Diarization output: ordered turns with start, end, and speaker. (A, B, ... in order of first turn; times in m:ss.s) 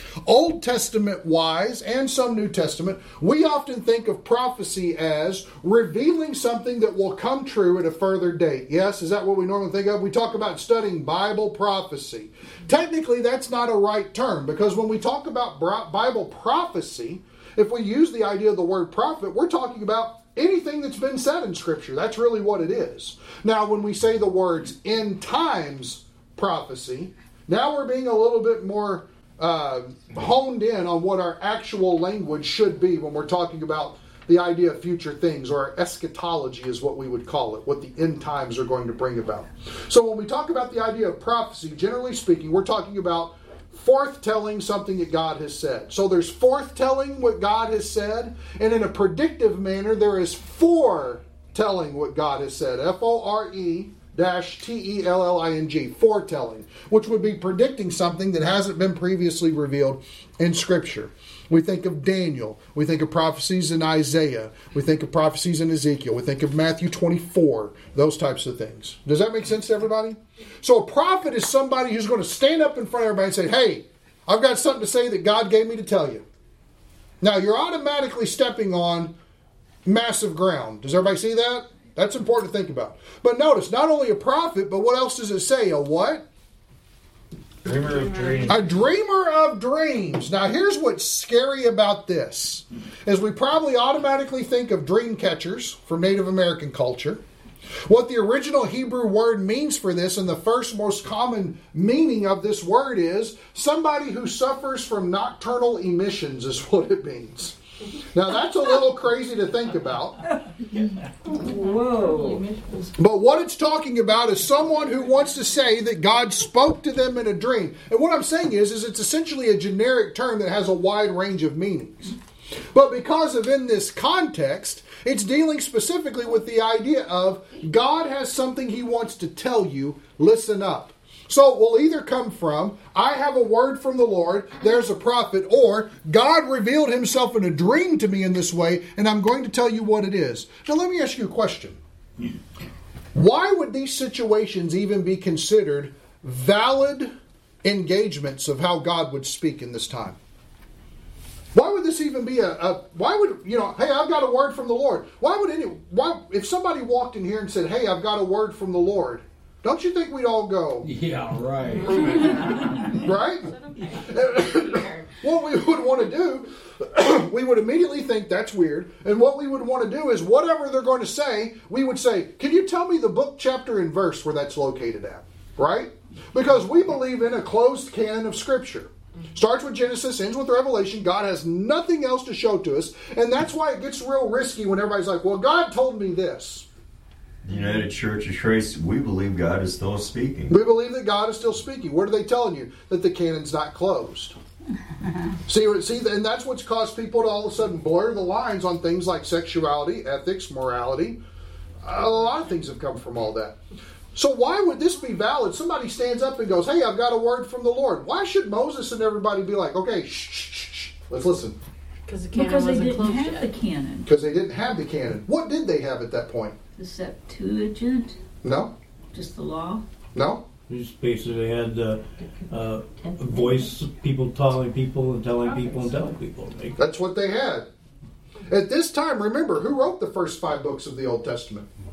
0:00.2-1:16.2 A
1:17.2-1:19.1 A
1:19.8-1:26.2 A
1:27.6-1:28.7 B
1:28.1-1:28.4 C
1:28.4-1:37.2 A
1:37.8-1:50.2 A
1:50.7-1:52.4 D
1:51.3-1:52.9 C
1:53.0-2:02.2 A
2:02.7-2:21.8 A
2:23.1-2:27.1 A
2:27.6-2:30.2 A
2:31.5-2:40.9 A
2:40.8-2:42.8 E
2:41.8-2:45.1 C
2:42.8-3:06.6 A
3:07.4-3:10.6 B
3:10.5-3:14.3 A
3:15.5-3:21.2 A
3:21.8-3:23.6 A
3:24.1-3:31.6 A
3:32.0-3:33.5 C
3:32.3-3:34.1 D
3:34.0-3:36.6 A
3:36.8-3:38.2 D
3:38.4-3:38.7 A
3:39.1-3:39.8 D
3:40.1-3:40.4 A
3:40.7-3:46.8 E
3:46.8-3:47.7 A
3:48.5-3:51.7 A